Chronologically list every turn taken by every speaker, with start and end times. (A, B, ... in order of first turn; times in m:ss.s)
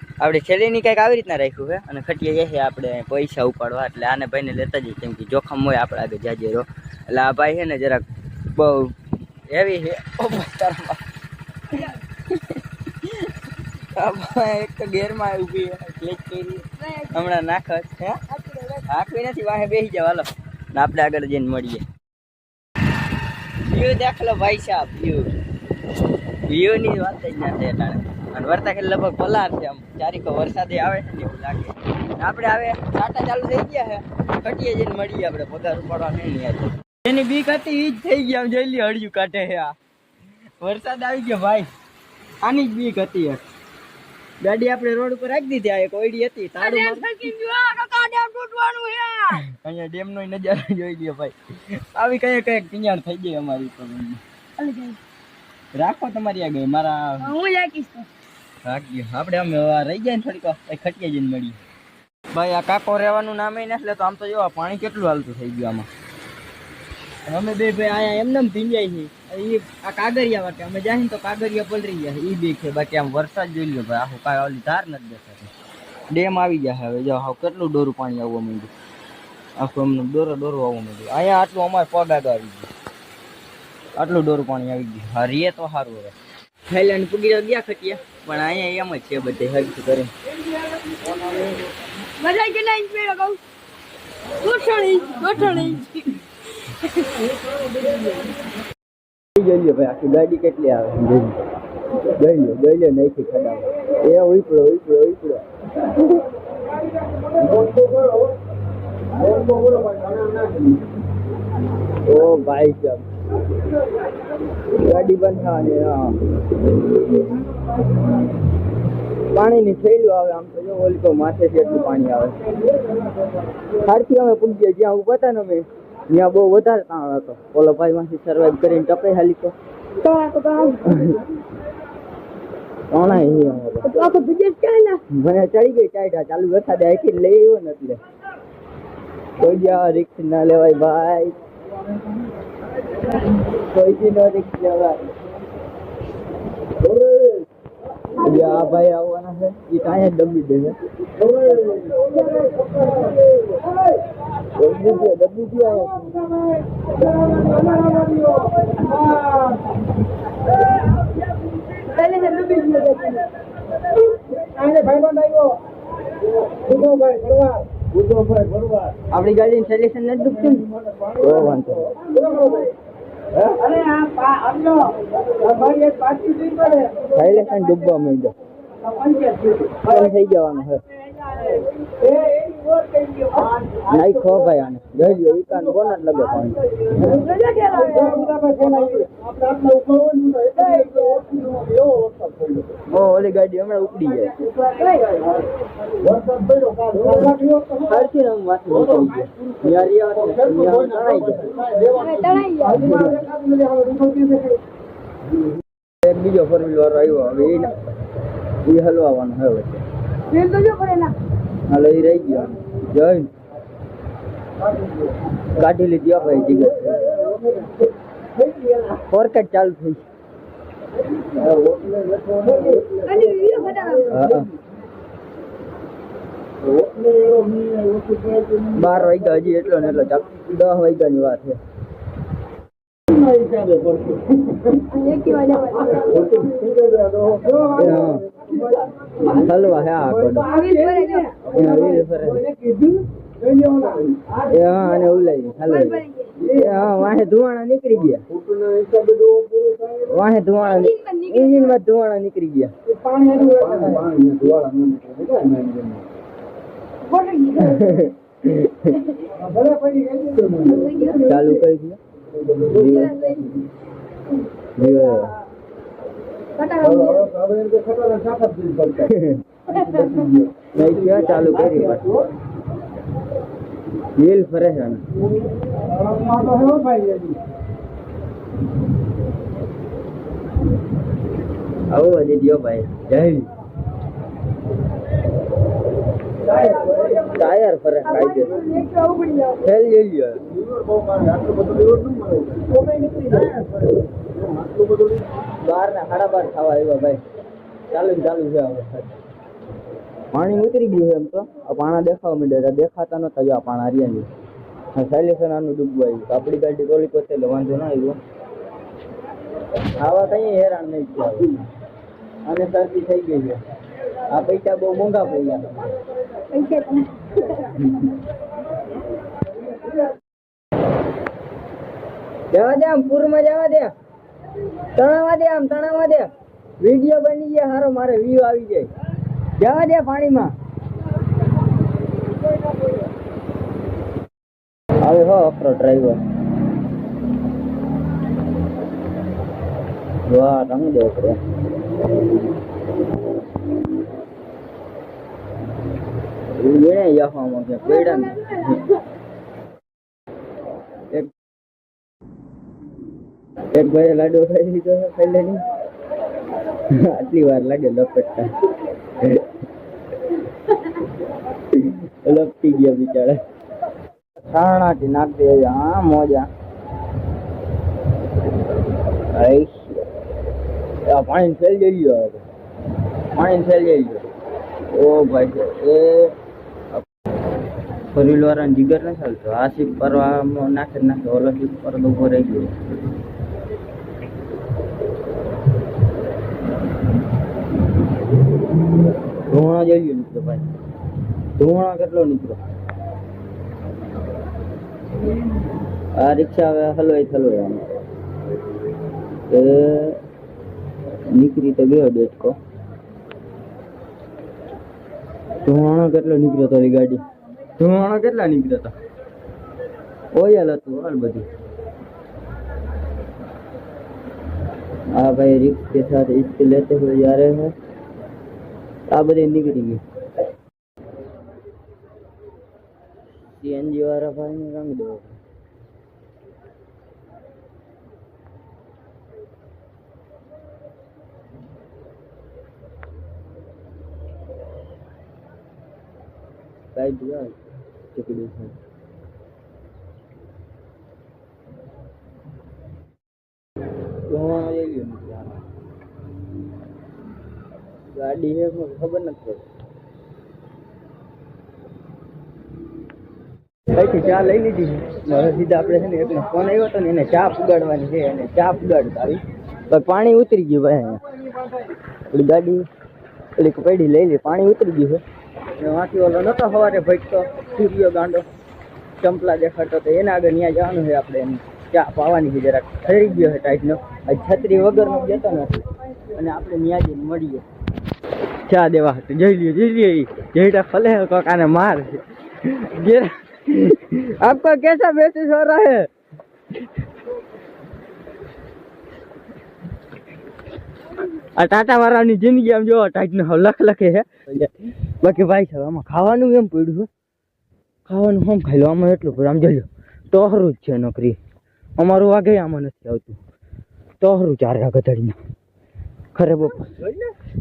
0:00.2-0:08.9 A
0:09.5-0:11.0 A
0:12.3-0:13.3 A
0:13.9-0:18.2 A
0:16.8-0:17.3 B
0:18.3-0:18.8 B
0:18.9-0:21.8 A
0:23.6-0:25.3 A
0:26.5-0:39.7 A
0:40.6-0:41.7 A
0:42.4-0:43.4 A
0:44.4-0:47.2 A
0:46.6-0:49.4 B
0:49.5-0:54.2 A
0:54.6-0:55.0 B
0:55.7-0:57.3 A
0:57.2-0:58.1 B
0:58.6-1:01.6 A
1:02.3-1:05.9 A
1:07.3-1:15.5 A
1:16.1-1:18.7 A
1:19.6-1:22.7 A
1:24.0-1:26.1 A
1:26.7-1:30.1 A
1:32.2-1:33.4 B
1:34.4-1:36.2 B
1:39.4-1:41.4 A
1:42.2-1:45.4 A
1:52.0-1:53.0 A
1:54.7-1:56.2 A
1:59.3-2:02.4 A
2:03.8-2:09.5 A
2:10.0-2:10.9 B
2:10.9-2:11.1 A
2:12.9-2:13.9 A
2:13.8-2:15.0 B
2:15.1-2:18.0 A
2:19.4-2:21.3 A
2:23.6-2:25.1 A
2:28.2-2:30.7 A
2:34.6-2:36.1 A
2:41.9-2:43.3 B
2:49.1-2:52.0 A
2:57.0-2:58.3 A
2:59.8-3:00.8 A
3:03.8-3:07.2 A
3:07.0-3:08.5 B
3:10.5-3:11.3 B
3:12.9-3:14.3 A
3:14.7-3:15.3 B
3:17.8-3:21.6 A
3:21.9-3:22.9 B
3:26.0-3:27.7 A
3:28.6-3:29.8 A
3:30.3-3:31.1 B
3:31.7-3:33.3 A
3:35.6-3:37.2 A
3:39.1-3:40.0 A
3:42.9-3:44.2 B
3:44.1-3:44.5 A
3:48.7-3:51.6 A
3:54.9-3:56.4 B
3:57.6-3:58.3 A
3:59.2-4:00.5 A
4:00.4-4:01.4 B
4:01.4-4:02.4 A
4:04.4-4:08.2 A
4:05.6-4:06.4 B
4:10.0-4:12.7 A
4:10.6-4:11.8 B
4:17.0-4:18.0 B
4:17.6-4:19.0 A
4:20.5-4:21.3 B
4:21.2-4:22.0 A
4:22.7-4:23.2 A
4:22.8-4:23.6 B
4:24.8-4:25.3 A
4:26.6-4:27.4 B
4:28.9-4:29.4 A
4:29.7-4:30.3 B
4:30.7-4:32.2 A
4:34.2-4:35.0 A
4:41.9-4:43.5 A
4:47.2-4:48.6 A
4:48.3-4:49.6 B
4:49.6-4:50.4 A
4:55.6-4:57.2 A
4:57.9-4:59.1 A
5:00.3-5:04.3 A
5:04.9-5:08.2 A
5:10.0-5:11.6 A
5:12.4-5:13.6 A
5:14.3-5:15.8 A
5:16.5-5:17.6 B
5:22.5-5:23.9 A
5:25.0-5:26.3 A
5:26.8-5:28.9 A
5:29.6-5:30.5 A
5:35.0-5:36.2 A
5:40.2-5:41.4 A
5:46.6-5:48.8 A
5:48.0-5:48.5 B
5:53.7-5:55.6 A
5:56.9-5:58.5 A
6:01.7-6:03.4 A
6:04.5-6:06.5 A
6:09.3-6:10.0 A
6:11.1-6:12.4 A
6:13.3-6:14.3 A
6:14.9-6:16.3 A
6:18.1-6:22.7 A
6:29.5-6:30.7 A
6:31.6-6:32.6 A
6:36.2-6:37.8 A
6:39.5-6:40.2 A
6:41.3-6:42.6 A
6:45.6-6:47.2 A
6:47.8-6:48.9 A
6:50.3-6:51.4 A
6:55.1-6:57.7 A
6:59.1-7:00.0 A
7:03.5-7:05.4 A
7:16.9-7:17.6 A
7:18.1-7:18.7 A
7:24.3-7:25.6 A
7:28.1-7:29.6 A
7:33.9-7:41.2 A
7:42.3-7:42.9 A
7:43.6-7:45.2 A
7:45.8-7:48.5 A
7:49.2-7:55.8 A
7:56.3-7:57.6 A
7:58.7-8:06.1 A
8:11.6-8:17.1 A
8:18.1-8:21.4 A
8:22.0-8:23.4 A
8:24.2-8:25.4 A
8:26.3-8:27.3 A